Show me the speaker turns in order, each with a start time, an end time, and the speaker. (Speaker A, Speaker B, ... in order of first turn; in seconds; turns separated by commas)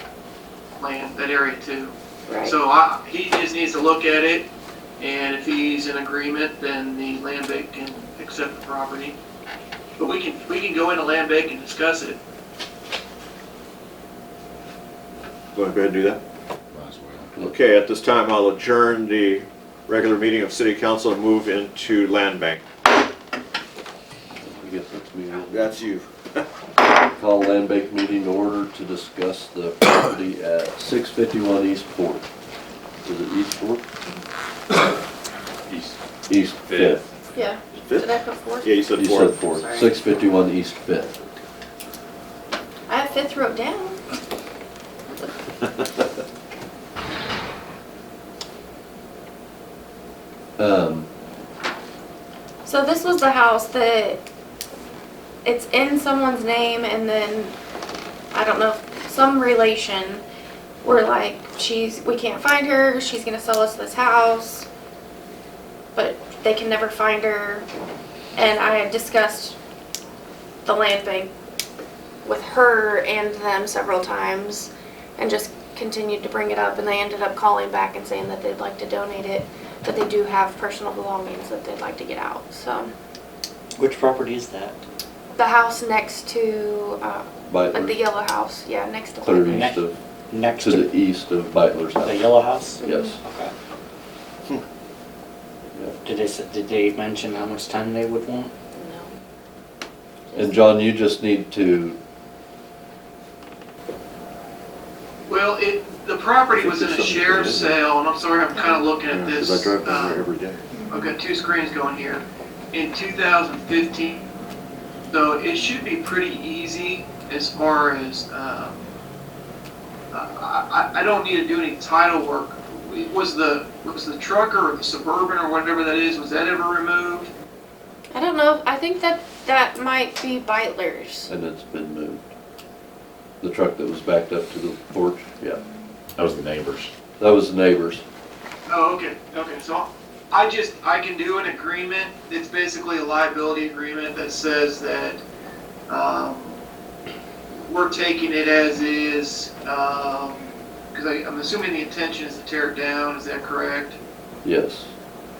Speaker A: 0.8-4.5, Speaker B: 2.3-2.5, Speaker A: 5.0-9.2, Speaker A: 10.0-12.2, Speaker C: 15.5-16.2, Speaker D: 16.7-17.3, Speaker C: 17.4-22.6, Speaker E: 24.4-25.7, Speaker C: 25.5-26.4, Speaker E: 27.1-32.2, Speaker E: 33.0-33.8, Speaker D: 35.7-36.0, Speaker E: 36.3-37.0, Speaker D: 36.7-37.0, Speaker B: 37.3-38.8, Speaker C: 37.8-39.4, Speaker E: 39.0-41.2, Speaker B: 39.4-39.9, Speaker B: 42.9-44.0, Speaker E: 50.6-51.1, Speaker B: 52.6-54.2, Speaker B: 55.4-57.5, Speaker B: 58.3-60.2, Speaker B: 60.8-64.7, Speaker B: 65.9-67.7, Speaker B: 68.3-69.5, Speaker B: 70.7-71.3, Speaker B: 72.2-82.9, Speaker F: 83.8-84.8, Speaker B: 85.3-89.6, Speaker E: 87.5-88.0, Speaker E: 89.2-90.0, Speaker F: 89.4-90.9, Speaker E: 90.6-93.2, Speaker F: 92.0-93.5, Speaker B: 92.8-93.1, Speaker F: 96.0-98.5, Speaker B: 98.7-99.1, Speaker E: 100.3-102.0, Speaker A: 105.2-110.3, Speaker C: 106.5-107.8, Speaker B: 108.5-108.8, Speaker C: 109.1-110.6, Speaker B: 110.7-111.1, Speaker A: 110.9-114.3, Speaker A: 115.1-118.8, Speaker A: 120.1-127.3, Speaker B: 128.1-131.3, Speaker E: 131.3-132.3, Speaker E: 133.4-135.6, Speaker D: 136.2-136.9, Speaker E: 137.2-138.0, Speaker A: 138.7-145.2, Speaker A: 145.9-146.6, Speaker A: 147.5-154.0, Speaker E: 154.4-154.9